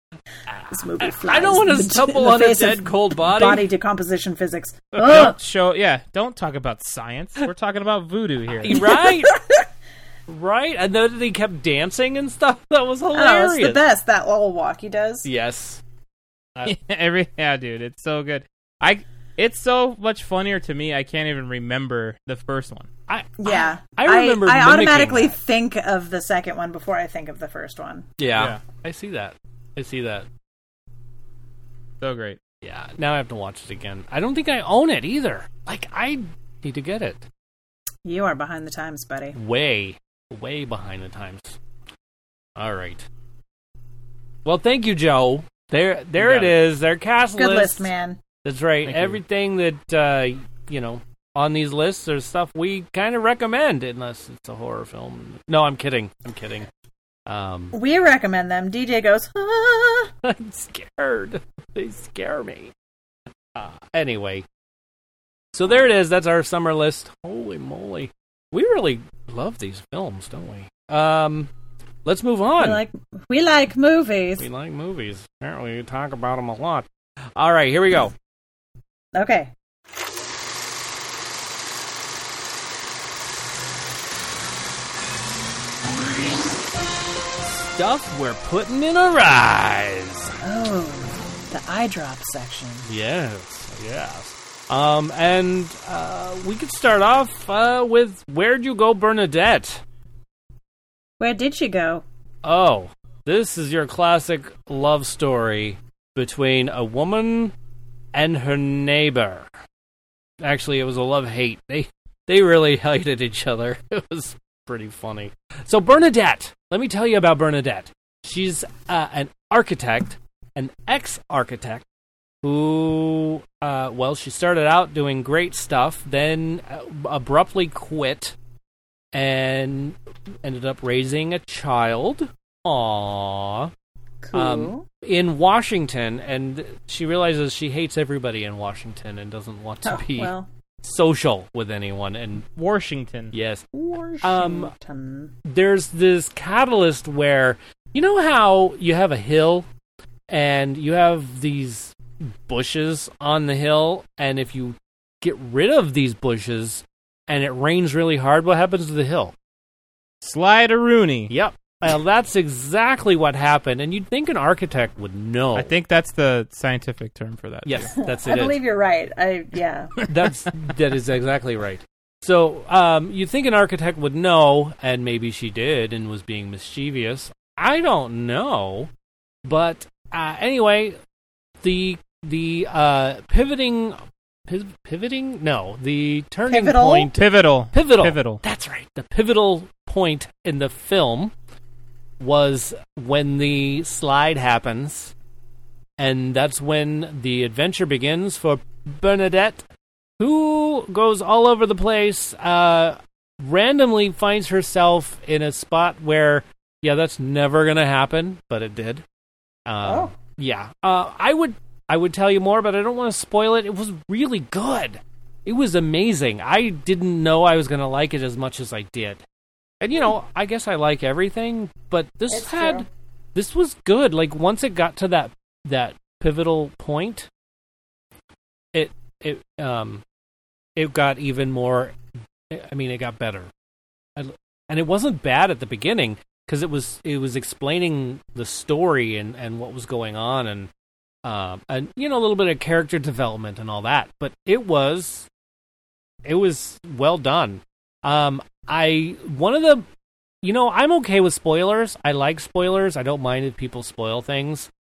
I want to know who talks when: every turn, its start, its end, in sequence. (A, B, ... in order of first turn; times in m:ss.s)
0:00.5-0:03.7 A
0:00.7-0:05.4 B
0:04.9-0:05.3 A
0:05.0-0:08.8 C
0:08.6-0:09.4 A
0:08.8-0:09.6 B
0:10.3-0:13.8 A
0:13.1-0:15.3 B
0:15.2-0:15.8 A
0:16.6-0:22.9 C
0:23.1-0:25.4 A
0:23.4-0:28.0 B
0:28.2-0:30.3 A
0:28.3-0:28.6 C
0:32.0-0:32.4 C
0:32.6-0:37.2 A
0:38.0-0:39.4 B
0:39.3-0:41.6 A
0:42.6-0:43.0 A
0:44.4-0:47.9 A
0:46.2-0:46.6 C
0:47.4-0:48.2 B
0:48.4-0:56.7 A
0:48.8-0:49.2 C
0:57.3-0:57.7 A
0:57.7-1:00.1 B
1:00.2-1:02.7 A
1:03.5-1:04.4 A
1:05.5-1:11.5 A
1:12.0-1:12.8 A
1:12.6-1:14.4 B
1:14.4-1:18.1 A
1:19.1-1:19.5 B
1:27.8-1:30.3 A
1:30.4-1:32.9 B
1:32.9-1:39.8 A
1:41.2-1:42.0 B
1:42.4-1:47.5 A
1:48.1-1:49.5 A
1:50.4-2:01.8 A
2:02.4-2:08.3 A
2:09.1-2:13.7 A
2:14.2-2:14.8 B
2:14.3-2:20.3 A
2:19.8-2:20.5 B
2:20.8-2:22.4 A
2:22.6-2:23.3 C
2:23.3-2:23.7 A
2:23.7-2:25.3 B
2:24.2-2:24.7 A
2:25.4-2:29.6 A
2:30.3-2:39.3 A
2:40.2-2:41.3 C
2:41.3-2:45.7 A
2:45.5-2:47.9 C
2:47.6-2:48.6 A
2:48.0-2:49.9 B
2:50.1-2:58.9 A
2:59.4-3:01.0 A
3:01.6-3:11.3 A
3:06.5-3:07.1 B
3:07.1-3:08.4 C
3:12.2-3:15.1 A
3:16.0-3:19.6 A
3:20.2-3:29.0 A
3:29.7-3:39.2 A
3:29.8-3:30.1 B
3:39.8-3:47.3 A
3:42.3-3:42.8 B
3:48.7-3:50.0 A
3:50.8-3:51.9 A
3:52.5-3:53.5 A
3:54.2-4:00.7 A
4:01.2-4:05.3 A
4:06.2-4:09.8 A
4:10.4-4:14.7 A